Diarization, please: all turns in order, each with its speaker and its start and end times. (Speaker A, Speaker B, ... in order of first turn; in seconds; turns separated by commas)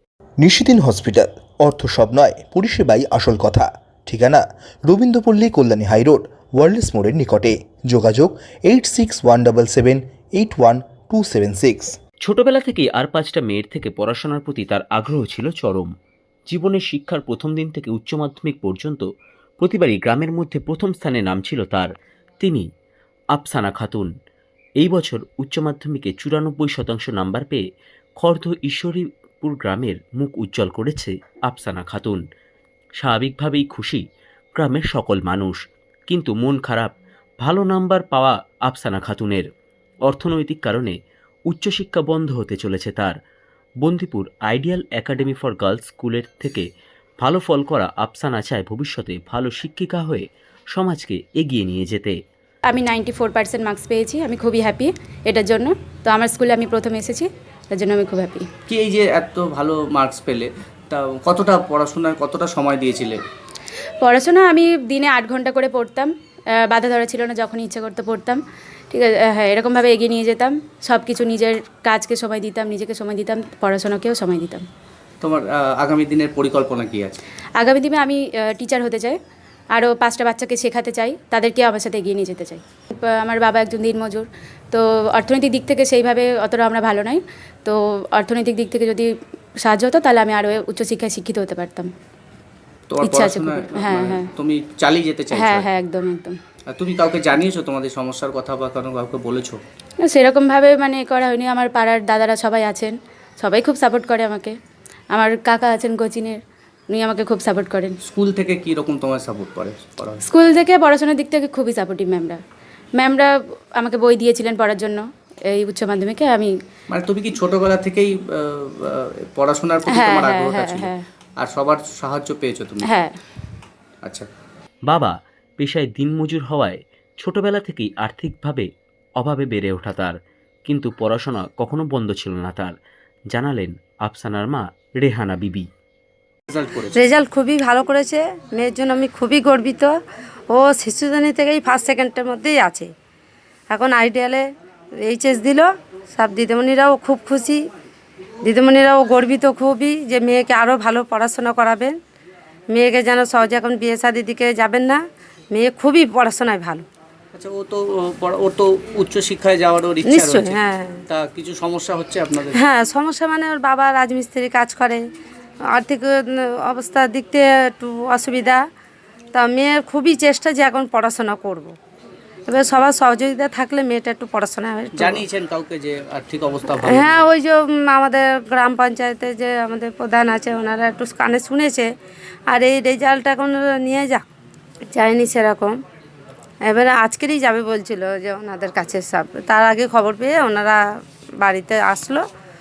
Speaker A: 0.4-12.0, Speaker B: 12.2-15.9, Speaker B: 16.5-19.1, Speaker B: 19.6-22.7, Speaker B: 23.3-24.1, Speaker B: 24.8-27.6, Speaker B: 28.2-32.2, Speaker B: 33.0-34.0, Speaker B: 34.6-35.6, Speaker B: 36.1-39.5, Speaker B: 40.1-41.0, Speaker B: 41.5-43.1, Speaker B: 43.8-46.7, Speaker B: 47.2-52.2, Speaker C: 52.7-58.5, Speaker D: 58.7-63.2, Speaker C: 64.0-66.1, Speaker C: 66.7-68.4, Speaker C: 68.9-74.6, Speaker D: 75.2-77.2, Speaker C: 77.6-79.2, Speaker C: 79.7-91.9, Speaker D: 92.9-95.7, Speaker C: 93.0-94.3, Speaker C: 95.3-96.4, Speaker D: 96.7-99.6, Speaker C: 100.0-104.5, Speaker C: 105.1-108.0, Speaker D: 108.0-110.2, Speaker C: 110.2-112.4, Speaker C: 113.0-116.5, Speaker D: 116.9-122.9, Speaker C: 119.9-121.0, Speaker C: 122.8-123.1, Speaker D: 124.0-124.3, Speaker B: 124.9-128.7, Speaker B: 129.2-132.7, Speaker B: 133.3-135.7, Speaker D: 136.5-137.0, Speaker E: 136.9-139.9, Speaker E: 140.5-142.9, Speaker E: 143.7-144.4, Speaker E: 145.0-147.6, Speaker E: 148.4-152.0, Speaker E: 152.7-156.8, Speaker D: 157.3-162.6, Speaker E: 160.1-161.0, Speaker E: 162.5-165.0, Speaker E: 165.7-168.6, Speaker E: 169.3-171.7, Speaker E: 172.5-175.2, Speaker D: 174.9-177.2, Speaker E: 176.8-181.9, Speaker E: 182.5-184.2, Speaker E: 184.9-185.8, Speaker E: 186.7-190.8, Speaker E: 191.4-192.2